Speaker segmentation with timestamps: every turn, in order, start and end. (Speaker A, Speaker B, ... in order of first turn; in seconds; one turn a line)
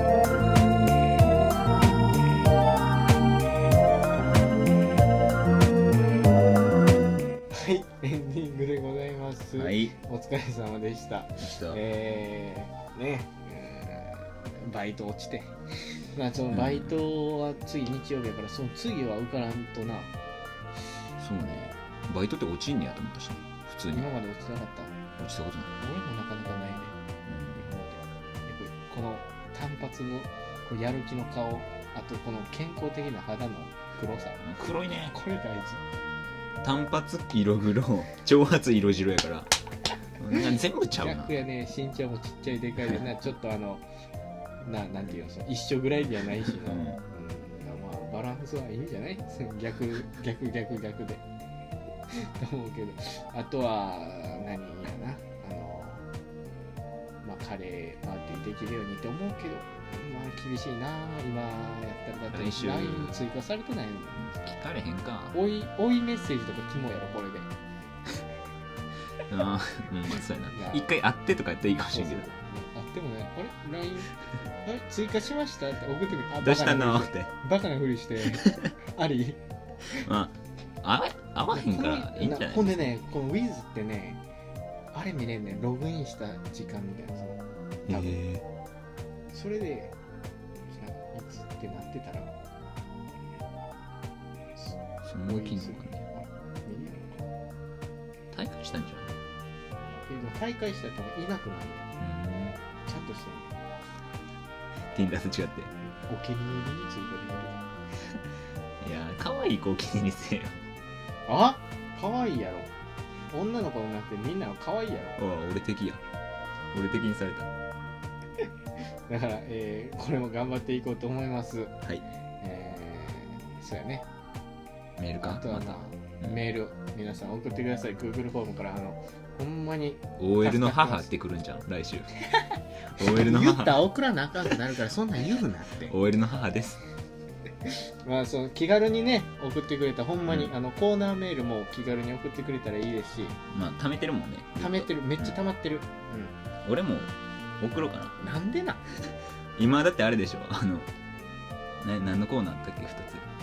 Speaker A: 7.5-15.5
Speaker B: 9.6-10.0
Speaker B: 11.4-11.8
Speaker A: 16.1-20.1
Speaker B: 16.5-17.0
Speaker B: 21.2-24.1
Speaker A: 23.9-24.9
Speaker B: 25.2-25.7
Speaker A: 25.8-27.0
Speaker B: 27.3-27.7
Speaker A: 27.6-34.4
Speaker B: 34.4-35.1
Speaker A: 35.1-35.8
Speaker B: 36.6-39.5
Speaker B: 40.2-41.4
Speaker A: 41.0-43.8
Speaker A: 44.6-51.2
Speaker B: 46.4-47.0
Speaker A: 52.1-56.1
Speaker A: 57.2-64.2
Speaker B: 62.3-63.3
Speaker B: 64.2-65.4
Speaker A: 65.3-67.5
Speaker B: 69.3-72.3
Speaker A: 70.5-70.9
Speaker A: 71.9-79.4
Speaker B: 76.4-77.3
Speaker B: 78.3-78.7
Speaker B: 80.0-82.9
Speaker A: 81.5-84.2
Speaker A: 84.9-88.2
Speaker B: 87.9-88.5
Speaker A: 89.3-90.0
Speaker A: 90.7-92.4
Speaker A: 94.6-97.3
Speaker B: 95.0-96.1
Speaker B: 98.3-99.2
Speaker A: 100.0-101.9
Speaker B: 102.0-102.6
Speaker A: 102.8-103.6
Speaker B: 104.9-105.7
Speaker A: 106.1-107.7
Speaker B: 108.8-110.7
Speaker A: 111.3-112.7
Speaker A: 113.3-115.2
Speaker B: 115.2-116.0
Speaker B: 116.7-117.5
Speaker A: 119.1-121.8
Speaker A: 122.4-124.1
Speaker B: 125.0-126.4
Speaker A: 125.2-131.1
Speaker B: 130.2-132.1
Speaker B: 132.9-133.8
Speaker A: 133.0-135.9
Speaker B: 135.9-136.8
Speaker A: 137.7-143.4
Speaker B: 140.3-140.5
Speaker B: 143.5-145.4
Speaker A: 144.6-146.4
Speaker B: 146.7-148.2
Speaker A: 148.2-148.8
Speaker B: 149.6-150.9
Speaker B: 151.8-153.3